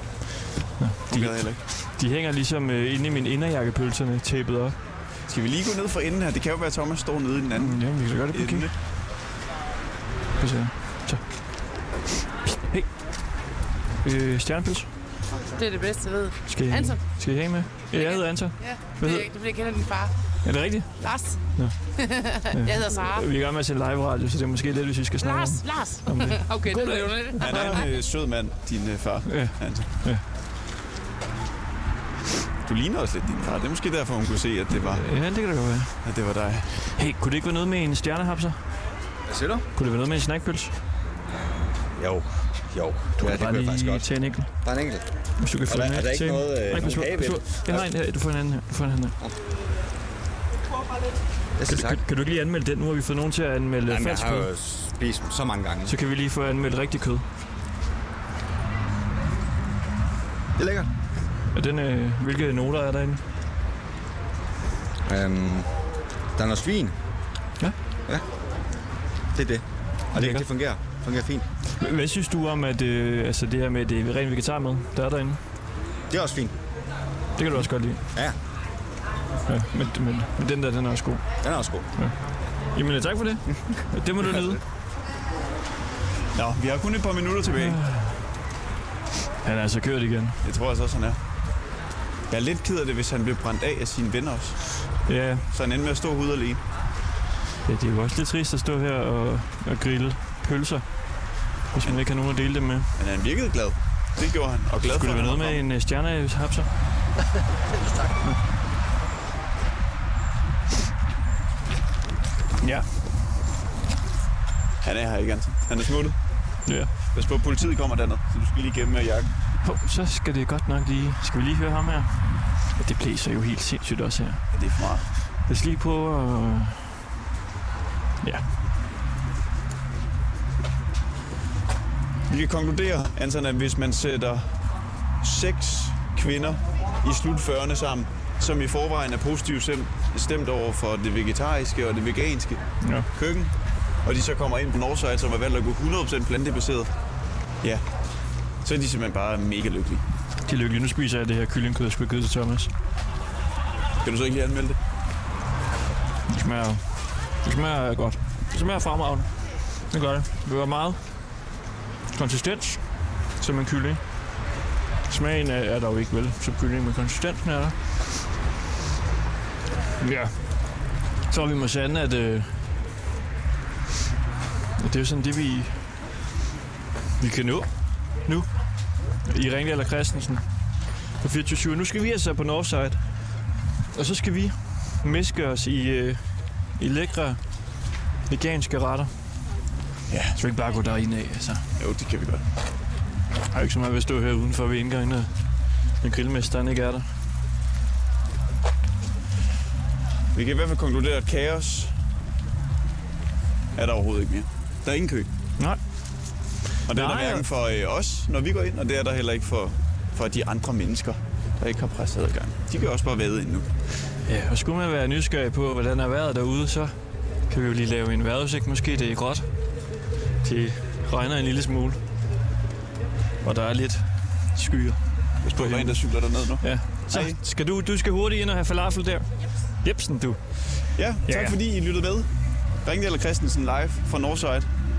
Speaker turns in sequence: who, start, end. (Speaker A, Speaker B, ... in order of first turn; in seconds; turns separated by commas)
Speaker A: 0.8-4.8, Speaker B: 1.1-1.6, Speaker B: 5.3-8.7, Speaker A: 7.5-8.7, Speaker A: 10.4-11.2, Speaker A: 12.4-12.9, Speaker A: 14.0-14.9, Speaker C: 15.3-17.0, Speaker A: 16.4-19.3, Speaker C: 17.9-20.1, Speaker A: 20.4-27.8, Speaker C: 21.0-21.4, Speaker C: 22.0-23.2, Speaker C: 25.2-27.7, Speaker B: 27.4-29.9, Speaker A: 29.2-30.2, Speaker B: 32.6-35.1, Speaker A: 34.7-36.0, Speaker B: 36.0-36.7, Speaker A: 36.8-38.6, Speaker D: 39.3-39.6, Speaker A: 39.7-40.7, Speaker D: 42.0-44.1, Speaker A: 43.2-44.5, Speaker D: 44.6-45.0, Speaker A: 45.4-49.2, Speaker D: 45.6-47.9, Speaker D: 51.6-52.0, Speaker A: 51.6-54.5, Speaker D: 53.9-55.9, Speaker A: 55.8-57.2, Speaker D: 60.5-60.9, Speaker A: 61.5-63.2, Speaker D: 65.0-65.7, Speaker D: 66.3-66.9, Speaker D: 69.3-71.5, Speaker A: 70.1-70.5, Speaker A: 71.8-75.4, Speaker D: 76.1-76.5, Speaker A: 77.3-78.0, Speaker A: 79.5-81.2, Speaker D: 81.4-81.8, Speaker A: 82.7-84.6, Speaker B: 86.3-87.8, Speaker A: 87.5-88.2, Speaker A: 89.4-90.4, Speaker B: 90.4-91.2, Speaker B: 92.3-94.6, Speaker A: 95.1-95.5, Speaker B: 95.5-96.6, Speaker A: 97.7-100.8, Speaker A: 101.7-102.9, Speaker B: 103.0-105.6, Speaker A: 104.9-106.7, Speaker A: 112.6-112.8, Speaker B: 114.8-116.2, Speaker B: 117.1-119.3, Speaker A: 119.6-122.1, Speaker A: 122.8-124.4, Speaker B: 124.5-125.0, Speaker A: 125.5-127.0, Speaker B: 132.3-134.5, Speaker B: 135.2-143.5, Speaker A: 142.8-143.1, Speaker B: 144.0-146.9, Speaker B: 148.6-150.0, Speaker A: 150.5-152.7, Speaker B: 154.0-154.8, Speaker A: 156.3-156.8, Speaker A: 157.4-159.3, Speaker A: 159.9-161.0, Speaker A: 162.1-162.8, Speaker A: 163.4-164.0, Speaker A: 165.1-167.8, Speaker A: 170.0-170.4, Speaker A: 171.3-172.7, Speaker A: 174.8-175.8, Speaker A: 177.2-177.7, Speaker A: 179.3-180.4, Speaker A: 181.2-183.0, Speaker A: 183.9-186.2, Speaker A: 186.8-187.4, Speaker A: 188.3-189.1, Speaker B: 190.1-190.4, Speaker A: 190.4-191.6, Speaker B: 191.8-192.4, Speaker A: 193.5-195.3, Speaker A: 196.0-197.1, Speaker B: 200.3-201.9, Speaker B: 203.7-205.3, Speaker B: 206.8-213.7, Speaker A: 206.9-207.4, Speaker A: 214.3-216.9, Speaker A: 217.5-219.4, Speaker A: 220.4-222.0, Speaker A: 223.4-225.0, Speaker B: 225.4-227.4, Speaker A: 225.5-226.0, Speaker A: 226.6-229.3, Speaker A: 229.8-231.6, Speaker B: 230.9-232.3, Speaker B: 232.8-234.7